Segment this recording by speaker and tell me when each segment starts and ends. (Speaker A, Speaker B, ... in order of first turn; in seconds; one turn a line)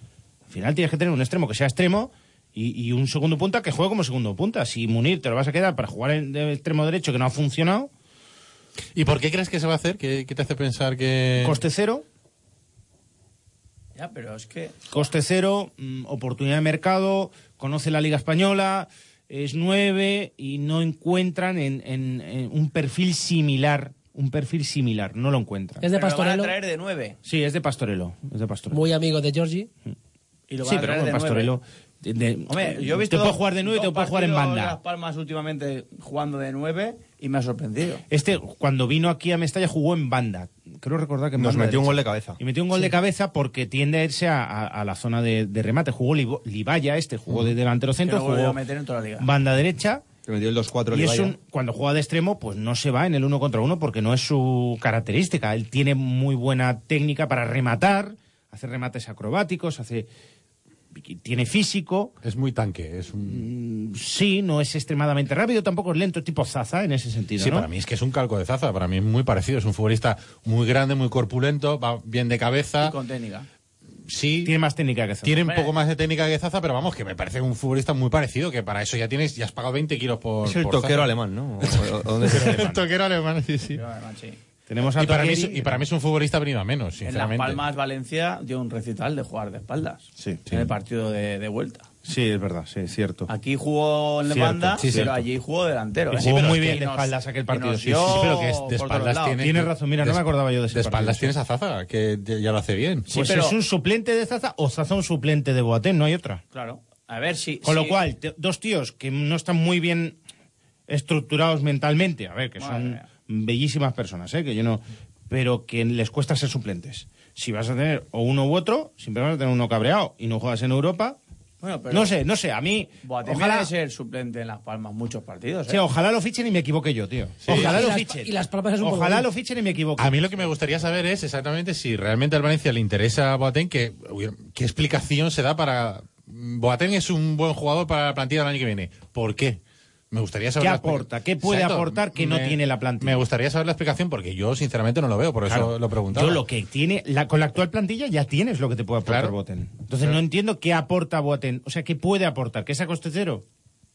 Speaker A: 0.5-7.9
Speaker B: 8.9-11.6
Speaker A: 11.4-12.0
Speaker C: 14.0-14.9
Speaker A: 14.9-25.8
Speaker D: 25.8-26.6
Speaker C: 25.9-27.2
Speaker A: 27.2-28.8
Speaker D: 28.7-29.7
Speaker C: 30.5-31.5
Speaker A: 30.6-34.8
Speaker C: 32.5-38.0
Speaker A: 38.1-48.6
Speaker E: 41.4-42.4
Speaker C: 48.0-49.3
Speaker A: 49.2-50.0
Speaker E: 50.3-51.4
Speaker A: 50.9-60.1
Speaker A: 60.9-62.1
Speaker B: 62.2-63.5
Speaker A: 63.2-67.7
Speaker B: 67.4-73.0
Speaker C: 72.8-73.5
Speaker B: 74.1-74.5
Speaker A: 74.4-75.5
Speaker B: 75.2-83.8
Speaker C: 75.5-75.8
Speaker E: 80.4-82.8
Speaker C: 83.8-84.4
Speaker A: 84.7-85.8
Speaker B: 84.9-87.6
Speaker C: 87.0-91.9
Speaker A: 90.2-90.4
Speaker B: 90.5-90.7
Speaker A: 92.0-93.3
Speaker C: 93.3-99.5
Speaker A: 94.3-95.2
Speaker B: 94.8-95.2
Speaker A: 96.1-98.5
Speaker B: 96.2-96.8
Speaker B: 98.0-103.2
Speaker A: 99.4-101.3
Speaker A: 103.1-106.4
Speaker C: 103.1-103.6
Speaker C: 106.5-108.0
Speaker A: 107.6-110.2
Speaker A: 110.9-121.2
Speaker C: 112.6-113.1
Speaker C: 121.6-122.1
Speaker A: 121.9-123.7
Speaker C: 123.0-125.8
Speaker A: 125.7-130.3
Speaker B: 127.4-127.9
Speaker D: 127.5-129.3
Speaker B: 130.0-139.6
Speaker B: 140.1-146.4
Speaker A: 140.6-143.3
Speaker A: 145.5-153.4
Speaker B: 149.1-149.3